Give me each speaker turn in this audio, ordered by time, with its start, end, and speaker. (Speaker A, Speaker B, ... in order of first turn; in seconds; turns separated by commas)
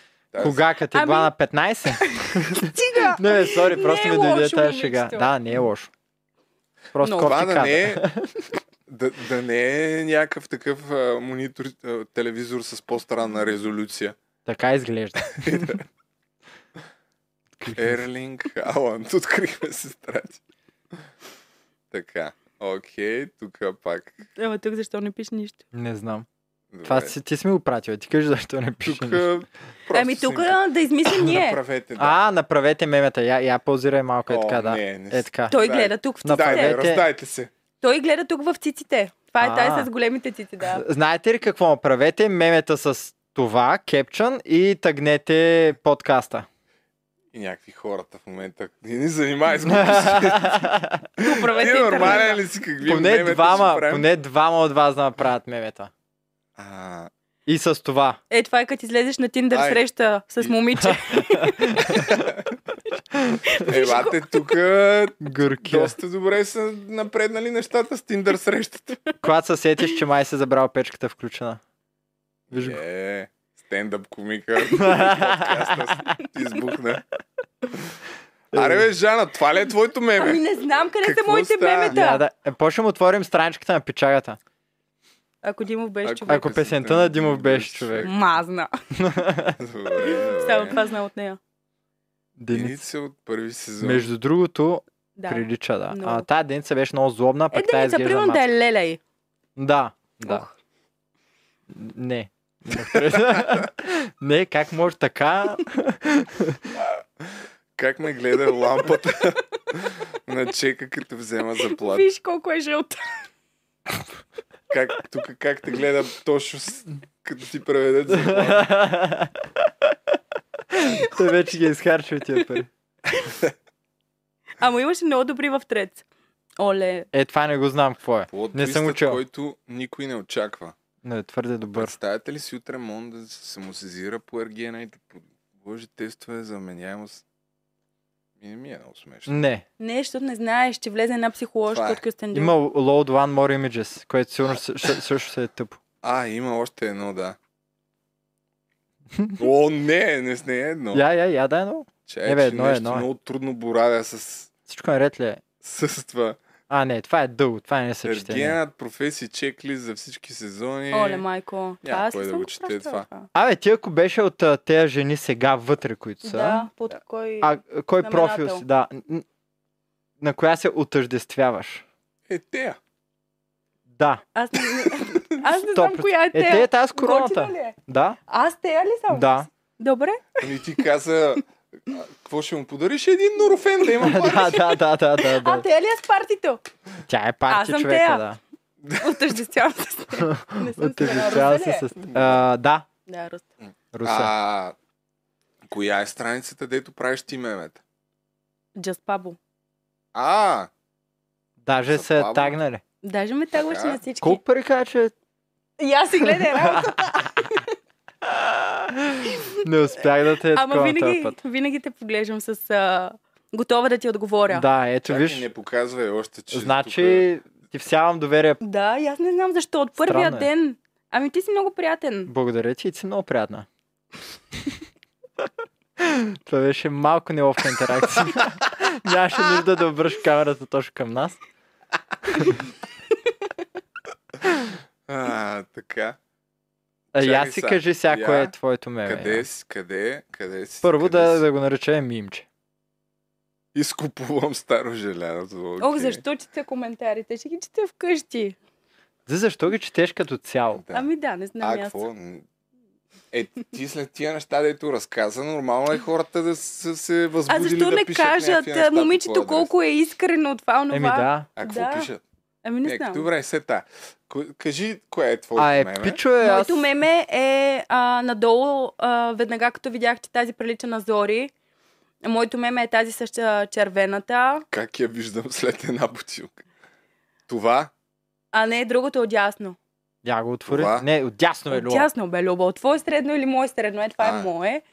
Speaker A: 0.3-0.6, Speaker B: 0.4-5.9, Speaker C: 0.9-1.3, Speaker C: 2.1-5.3, Speaker B: 6.9-8.4, Speaker C: 7.0-7.3, Speaker A: 7.2-8.1, Speaker A: 8.9-14.2, Speaker B: 14.4-15.7, Speaker A: 15.3-15.8, Speaker B: 17.6-18.0, Speaker A: 17.7-20.4, Speaker A: 21.9-24.2, Speaker C: 24.4-25.6, Speaker B: 25.7-26.3, Speaker A: 26.7-27.1, Speaker B: 26.8-29.2, Speaker A: 28.8-30.6, Speaker C: 29.9-31.6, Speaker A: 31.2-32.2, Speaker B: 32.0-35.6, Speaker A: 34.3-37.5, Speaker C: 35.5-36.7, Speaker B: 36.2-37.0, Speaker C: 37.8-40.8, Speaker B: 39.4-39.9, Speaker B: 40.7-46.5, Speaker A: 47.3-54.1, Speaker B: 49.6-51.0, Speaker C: 51.2-52.4, Speaker B: 52.8-55.9, Speaker A: 56.6-57.1, Speaker B: 57.5-58.2, Speaker C: 58.3-62.0, Speaker A: 59.5-59.8, Speaker A: 61.9-62.5, Speaker C: 63.5-64.2, Speaker A: 63.6-69.0, Speaker B: 65.2-66.0, Speaker B: 69.2-71.6, Speaker A: 72.5-77.0, Speaker B: 72.5-72.8, Speaker B: 74.7-76.1, Speaker B: 78.5-78.8, Speaker A: 78.5-80.4, Speaker C: 80.2-82.2, Speaker A: 81.0-82.0, Speaker B: 81.9-84.4, Speaker C: 85.4-86.5, Speaker A: 86.0-88.1, Speaker B: 86.3-88.1, Speaker C: 88.0-88.7, Speaker B: 89.0-89.6, Speaker A: 89.6-90.8, Speaker C: 90.0-91.4, Speaker B: 92.4-92.8, Speaker A: 92.5-94.1, Speaker B: 93.8-98.4, Speaker C: 95.2-96.2, Speaker C: 97.5-99.0, Speaker B: 99.6-100.5, Speaker C: 100.2-100.5, Speaker B: 101.7-106.6, Speaker A: 107.8-112.0, Speaker C: 111.7-113.2, Speaker A: 114.7-118.7, Speaker B: 118.1-120.0, Speaker B: 120.7-122.7, Speaker C: 124.6-126.0, Speaker C: 126.6-127.1, Speaker B: 127.1-129.2, Speaker A: 128.3-130.7, Speaker B: 131.0-131.9, Speaker A: 131.7-137.2, Speaker A: 138.4-139.3, Speaker B: 139.3-139.6, Speaker C: 139.8-142.5, Speaker A: 141.7-142.0, Speaker B: 142.3-145.8, Speaker A: 146.0-147.4, Speaker A: 149.4-151.0, Speaker B: 150.9-153.0, Speaker A: 152.1-154.5, Speaker B: 154.7-155.4, Speaker A: 155.6-156.4, Speaker B: 156.7-158.6, Speaker A: 158.0-161.2, Speaker C: 160.9-163.3, Speaker A: 161.8-163.1, Speaker B: 163.3-166.7, Speaker C: 166.2-168.6, Speaker B: 167.4-169.2, Speaker B: 170.2-171.8, Speaker A: 172.3-172.8, Speaker B: 173.9-174.2, Speaker C: 174.3-177.8, Speaker B: 175.6-178.2, Speaker C: 178.3-180.3, Speaker B: 179.1-179.5, Speaker A: 180.4-184.6, Speaker B: 184.0-185.6, Speaker C: 184.3-184.6, Speaker C: 185.3-186.6, Speaker B: 187.1-188.4, Speaker C: 187.5-188.2, Speaker C: 189.0-191.8, Speaker B: 190.2-192.8, Speaker A: 191.9-192.4, Speaker C: 193.1-193.5, Speaker A: 193.6-194.7, Speaker B: 193.9-194.3, Speaker A: 195.7-197.8, Speaker C: 198.8-199.4, Speaker A: 200.1-200.7, Speaker B: 201.6-202.8, Speaker A: 201.9-202.6, Speaker C: 203.0-204.4, Speaker A: 203.5-204.0, Speaker B: 204.2-205.1, Speaker C: 205.8-207.7, Speaker B: 206.2-207.3, Speaker B: 208.2-211.4, Speaker C: 210.5-214.7, Speaker B: 214.5-215.4, Speaker A: 215.0-217.3, Speaker B: 216.5-218.6, Speaker C: 218.6-222.3, Speaker B: 219.9-220.5, Speaker B: 222.3-223.7, Speaker B: 226.0-231.4, Speaker A: 235.1-236.2, Speaker B: 237.1-239.4, Speaker A: 237.1-238.5, Speaker A: 239.0-241.4, Speaker B: 240.8-242.4, Speaker A: 243.7-246.2, Speaker C: 245.8-248.6, Speaker B: 249.3-250.8, Speaker A: 250.7-251.1, Speaker C: 250.9-252.0, Speaker A: 251.6-252.4, Speaker A: 253.3-259.7, Speaker C: 257.5-262.1, Speaker B: 260.9-261.5, Speaker A: 261.6-262.2, Speaker C: 262.6-263.3, Speaker A: 262.8-266.2, Speaker B: 265.6-266.9, Speaker C: 266.4-271.5, Speaker C: 272.2-274.6, Speaker A: 274.7-276.6, Speaker A: 277.5-277.9, Speaker C: 278.5-279.8, Speaker B: 280.2-282.1, Speaker A: 280.7-281.1, Speaker C: 281.7-284.8, Speaker A: 284.2-284.5